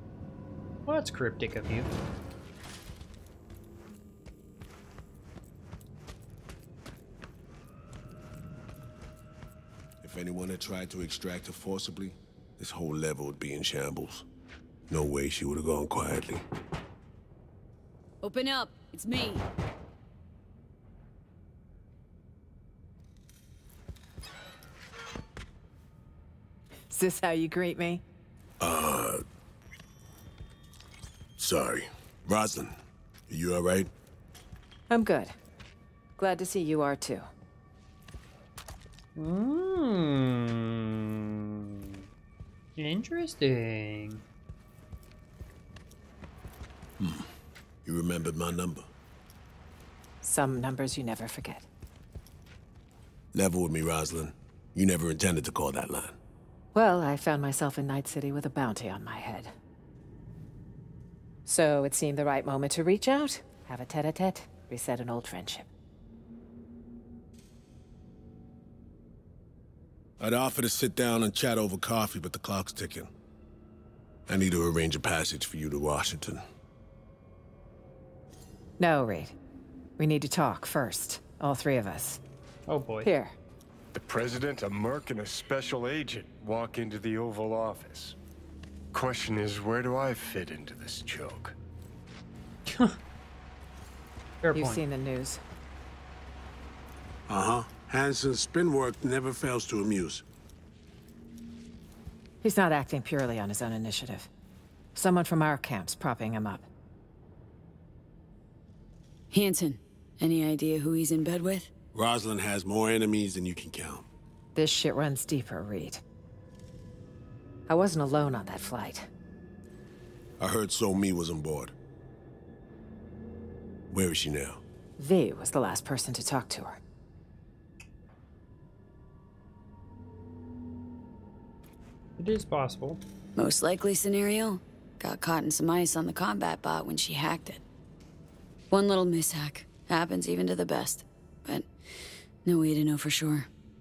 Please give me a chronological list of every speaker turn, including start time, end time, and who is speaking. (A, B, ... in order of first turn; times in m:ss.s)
0:00.8-0:01.9 A
0:10.0-0:14.2 B
0:14.9-0:16.4 B
0:18.2-0:19.4 C
0:26.9-0:28.0 D
0:28.6-0:29.2 B
0:31.4-0:32.8 B
0:33.3-0:33.9 B
0:34.9-0:35.3 D
0:36.2-0:37.3 D
0:39.2-0:42.0 A
0:42.8-0:44.2 A
0:47.0-0:47.3 B
0:47.8-0:48.9 B
0:50.2-0:51.7 D
0:53.3-0:56.2 B
0:56.7-0:59.5 D
1:01.4-1:05.7 D
1:10.2-1:13.1 B
1:14.3-1:16.4 B
1:18.8-1:19.3 D
1:20.0-1:22.2 D
1:22.7-1:23.1 A
1:23.0-1:23.4 D
1:23.9-1:28.2 E
1:28.9-1:31.6 E
1:32.7-1:33.0 A
1:34.4-1:34.8 A
1:34.5-1:35.4 D
1:37.3-1:40.2 B
1:42.4-1:44.3 D
1:44.9-1:46.7 D
1:49.3-1:51.7 C
1:51.9-1:54.1 B
1:54.5-1:56.0 D
1:57.7-1:59.1 D
2:00.4-2:01.7 B
2:03.9-2:04.6 B
2:05.0-2:06.8 D
2:12.2-2:13.0 A
2:13.4-2:17.6 C
2:18.7-2:23.5 C